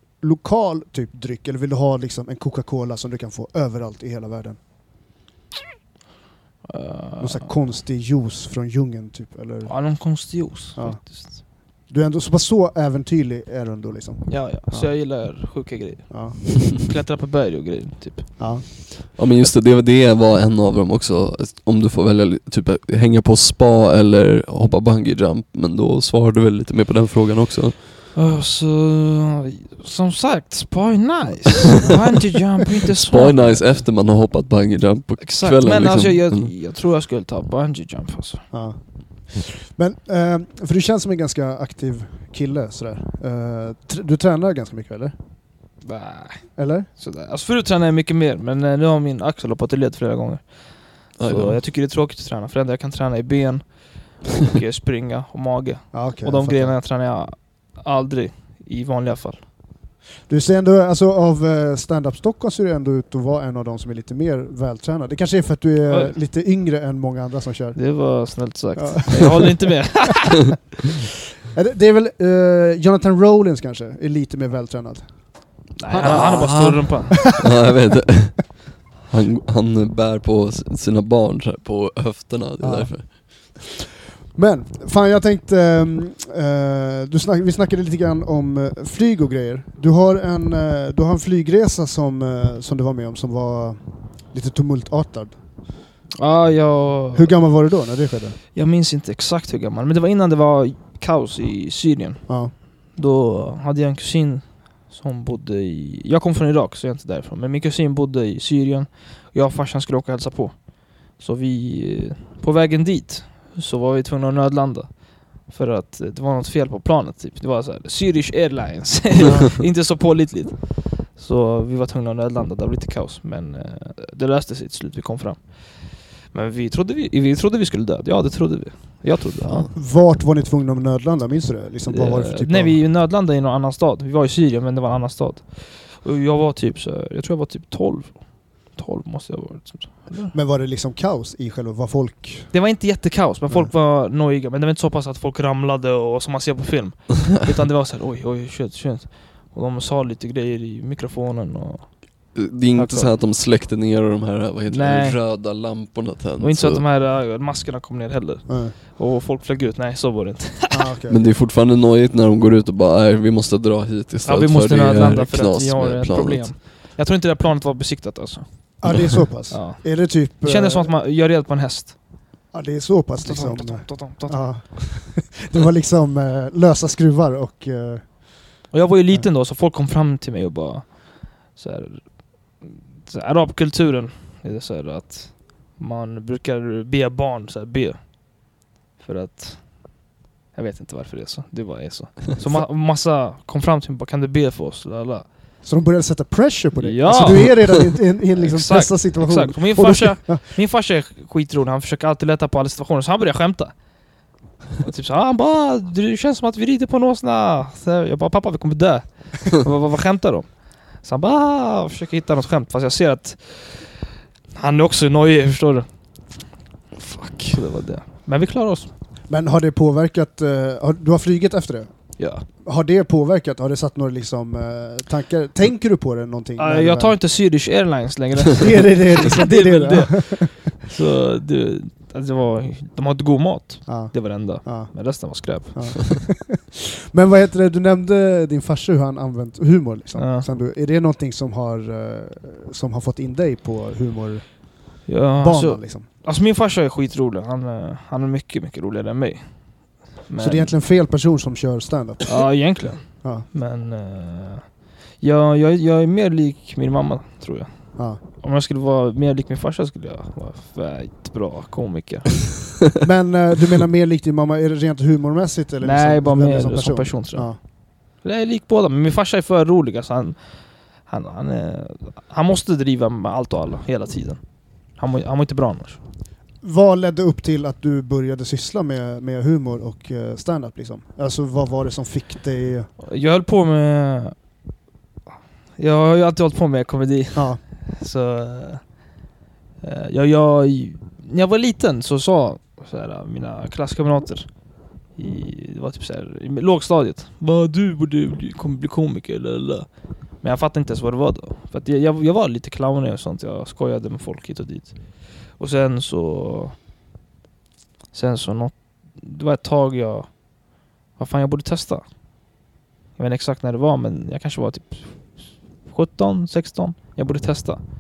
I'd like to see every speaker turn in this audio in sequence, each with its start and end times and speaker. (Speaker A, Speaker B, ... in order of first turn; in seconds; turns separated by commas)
Speaker A: 0.2-4.6, Speaker B: 6.7-7.5, Speaker A: 7.2-9.9, Speaker B: 9.7-11.4, Speaker A: 10.8-14.9, Speaker B: 14.3-18.8, Speaker A: 16.1-16.4, Speaker A: 18.4-18.6, Speaker C: 19.1-27.8, Speaker B: 28.1-33.7, Speaker A: 31.3-32.3, Speaker C: 33.0-36.5, Speaker B: 35.2-38.5, Speaker A: 38.5-45.1, Speaker B: 45.8-59.5, Speaker A: 46.6-46.9, Speaker C: 51.2-51.6, Speaker A: 55.9-56.8, Speaker A: 60.3-67.8, Speaker B: 65.9-66.2, Speaker B: 67.8-70.4, Speaker A: 68.8-69.7, Speaker A: 71.5-75.1, Speaker B: 75.8-77.2, Speaker A: 75.9-76.7, Speaker C: 76.0-83.1, Speaker A: 82.6-83.6, Speaker A: 84.3-95.4, Speaker B: 96.2-97.3, Speaker A: 97.1-98.4, Speaker B: 98.5-129.7, Speaker A: 102.3-102.5, Speaker A: 129.6-132.8, Speaker B: 131.9-140.3, Speaker A: 140.3-142.5, Speaker B: 142.5-152.1, Speaker C: 152.3-156.8, Speaker B: 152.8-153.1, Speaker B: 154.7-155.2, Speaker B: 156.4-160.9, Speaker A: 158.5-158.8, Speaker A: 160.7-161.2, Speaker C: 161.1-166.5, Speaker B: 164.2-172.0, Speaker A: 168.8-170.9, Speaker A: 172.5-178.2, Speaker B: 173.2-174.9, Speaker B: 178.7-188.2, Speaker B: 189.0-190.0, Speaker B: 190.5-195.3, Speaker A: 195.6-200.4, Speaker B: 196.8-203.8, Speaker B: 204.8-214.0, Speaker B: 214.6-215.9, Speaker C: 217.0-217.6, Speaker B: 217.5-218.9, Speaker A: 219.3-227.2, Speaker B: 222.2-222.4, Speaker B: 226.6-236.1, Speaker A: 228.6-230.5, Speaker A: 233.9-234.9, Speaker A: 235.7-246.1, Speaker B: 240.2-240.5, Speaker B: 245.1-249.5, Speaker B: 250.2-250.8, Speaker A: 250.4-252.4, Speaker B: 252.3-254.7, Speaker B: 255.2-262.5, Speaker A: 263.0-267.6, Speaker B: 265.8-267.6, Speaker B: 268.1-274.4, Speaker B: 274.9-276.0, Speaker A: 276.6-282.9, Speaker B: 283.0-284.4, Speaker B: 285.8-288.8, Speaker A: 287.4-287.6, Speaker B: 289.8-294.5, Speaker B: 295.2-306.8, Speaker B: 308.1-310.5, Speaker B: 311.2-312.0, Speaker B: 313.2-317.8